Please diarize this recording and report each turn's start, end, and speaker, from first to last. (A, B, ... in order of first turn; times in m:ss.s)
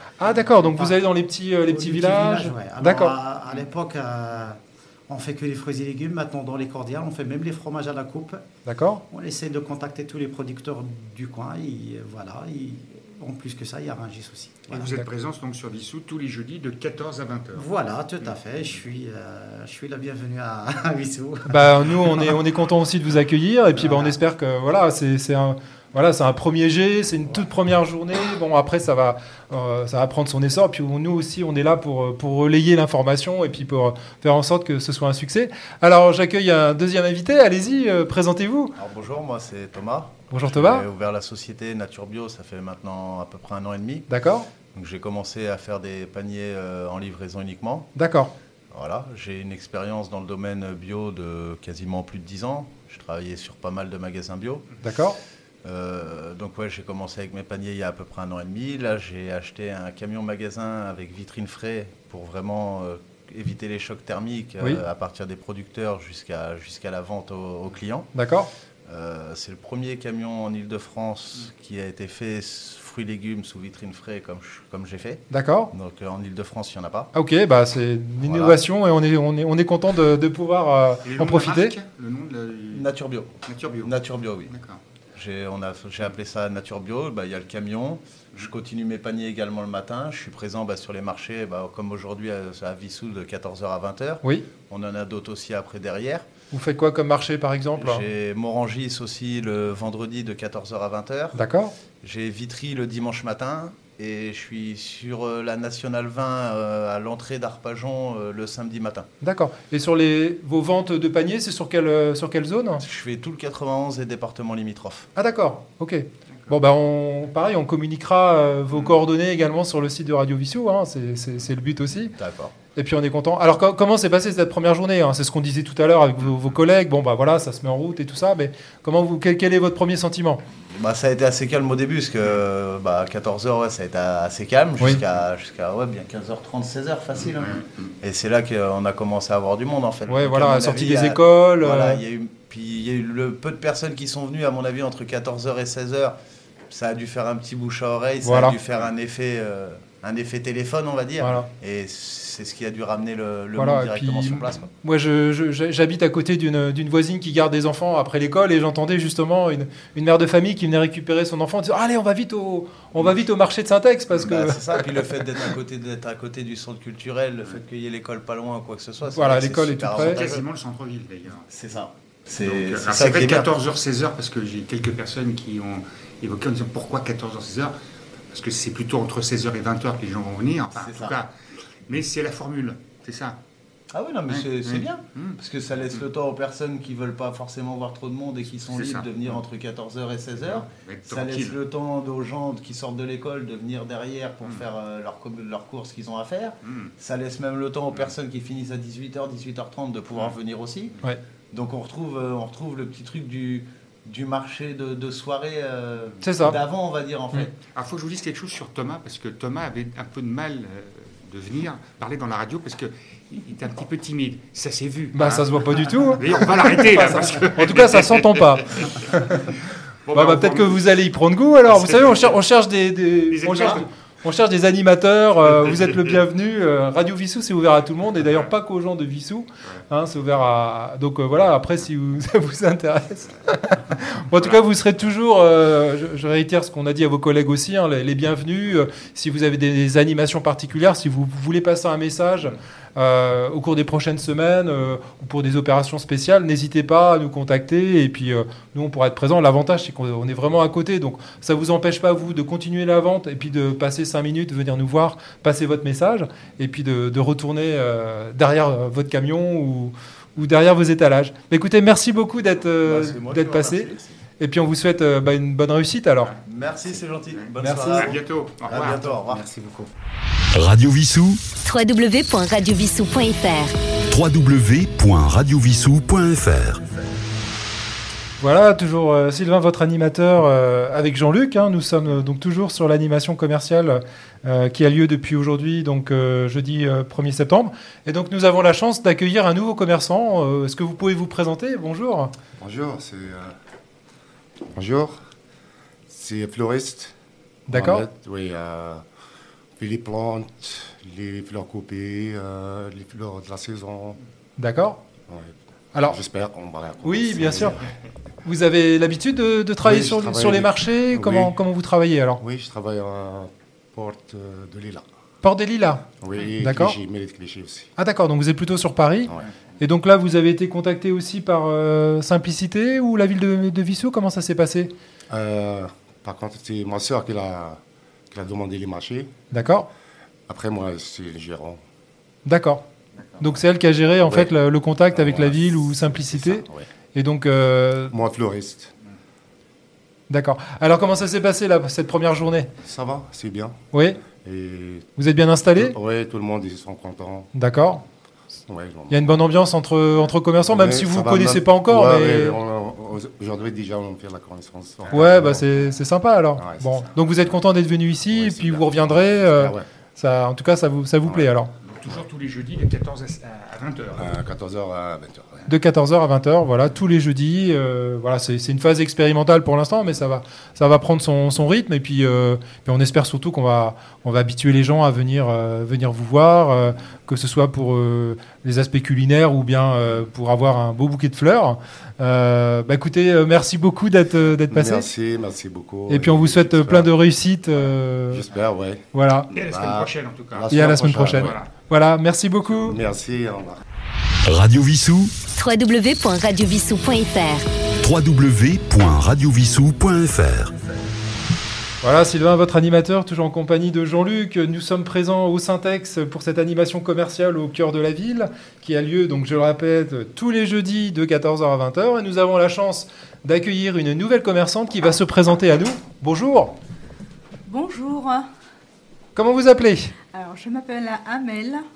0:00.2-0:03.2 A
0:00.7-0:01.0 B
0:01.7-0:08.4 B
0:08.6-0:09.0 A
0:09.1-0:14.9 B
0:14.7-0:17.7 C
0:17.6-0:21.5 B
0:21.5-0:38.8 A
0:23.8-0:24.1 B
0:38.8-0:44.1 D
0:40.3-0:40.9 A
0:44.1-0:44.5 A
0:44.7-0:47.9 D
0:48.0-0:48.3 A
0:48.7-0:54.7 D
0:54.8-0:55.2 A
0:55.6-1:08.1 D
1:08.1-1:08.5 A
1:08.9-1:17.1 D
1:15.3-1:15.7 A
1:17.1-1:21.8 A
1:18.2-1:18.6 D
1:21.0-1:22.9 C
1:22.7-1:24.5 D
1:23.4-1:23.9 C
1:24.5-1:24.8 C
1:25.2-1:36.2 D
1:34.2-1:34.5 A
1:36.5-1:38.0 A
1:37.7-1:41.4 D
1:41.3-1:41.7 A
1:42.0-1:49.1 D
1:49.2-1:52.8 A
1:52.8-1:55.1 D
1:55.2-2:02.2 A
2:02.1-2:02.5 D
2:02.8-2:10.4 A
2:10.6-2:26.2 D
2:20.1-2:22.0 A
2:26.7-2:34.7 D
2:28.2-2:28.6 A
2:31.2-2:31.5 A
2:33.5-2:45.3 A
2:43.0-2:43.2 D
2:44.1-2:50.5 D
2:49.1-2:50.2 A
2:50.0-2:51.4 C
2:51.5-2:53.5 D
2:52.4-2:57.7 C
2:58.3-3:01.3 C
3:00.7-3:01.2 D
3:01.9-3:03.4 C
3:03.9-3:21.0 D
3:04.3-3:06.0 C
3:08.6-3:09.4 C
3:10.4-3:11.6 C
3:16.6-3:16.9 C
3:21.5-3:27.5 D
3:26.2-3:26.6 A
3:27.6-3:40.8 C
3:35.1-3:39.4 A
3:40.1-4:26.4 A
3:41.6-3:42.4 C
3:43.3-3:43.9 C
3:45.4-3:46.2 C
4:22.8-4:24.1 D
4:26.4-4:29.5 D
4:27.2-4:29.1 C
4:27.6-4:28.1 A
4:29.5-4:29.9 B
4:30.5-4:31.4 E
4:31.6-4:33.7 F
4:34.1-4:36.8 E
4:38.4-4:52.3 A
4:52.6-4:53.5 G
4:54.7-4:55.2 G
4:56.1-4:57.1 G
4:57.7-4:59.0 G
4:57.7-4:58.0 A
4:59.8-5:04.2 G
5:04.6-5:05.0 A
5:05.3-5:07.9 G
5:07.0-5:07.8 A
5:08.4-5:12.4 A
5:09.8-5:11.6 G
5:12.4-5:15.0 G
5:15.4-5:16.0 A
5:16.2-5:17.9 G
5:16.6-5:17.0 A
5:18.0-5:24.9 A
5:25.3-5:27.8 G
5:28.3-5:29.3 G
5:29.5-5:29.9 A
5:30.5-5:31.8 G
5:32.4-5:32.8 A
5:33.4-5:38.1 A
5:34.2-5:34.6 G
5:35.1-5:36.9 G
5:38.1-5:38.9 G
5:40.3-5:42.7 A
5:42.8-5:45.1 G
5:43.9-5:44.2 A
5:45.2-5:46.0 A
5:45.8-5:47.5 G
5:47.5-5:48.0 A
5:48.7-5:49.4 G
5:49.1-5:52.6 A
5:50.6-5:55.9 G
5:55.1-6:01.7 A
5:56.6-5:57.7 G
5:58.2-5:59.9 G
6:01.2-6:01.5 G
6:01.8-6:04.4 C
6:04.1-6:05.7 G
6:05.7-6:25.1 A
6:24.7-6:27.2 G
6:26.1-6:28.4 A
6:28.3-6:31.6 G
6:29.1-6:29.5 A
6:29.5-6:30.7 C
6:30.7-6:33.0 A
6:31.3-6:31.7 C
6:32.8-6:33.8 G
6:34.5-6:35.4 E
6:35.5-6:37.6 F
6:38.0-6:40.7 E
6:42.0-6:56.7 A
6:57.6-6:58.5 H
6:59.4-7:00.1 A
7:00.3-7:01.8 H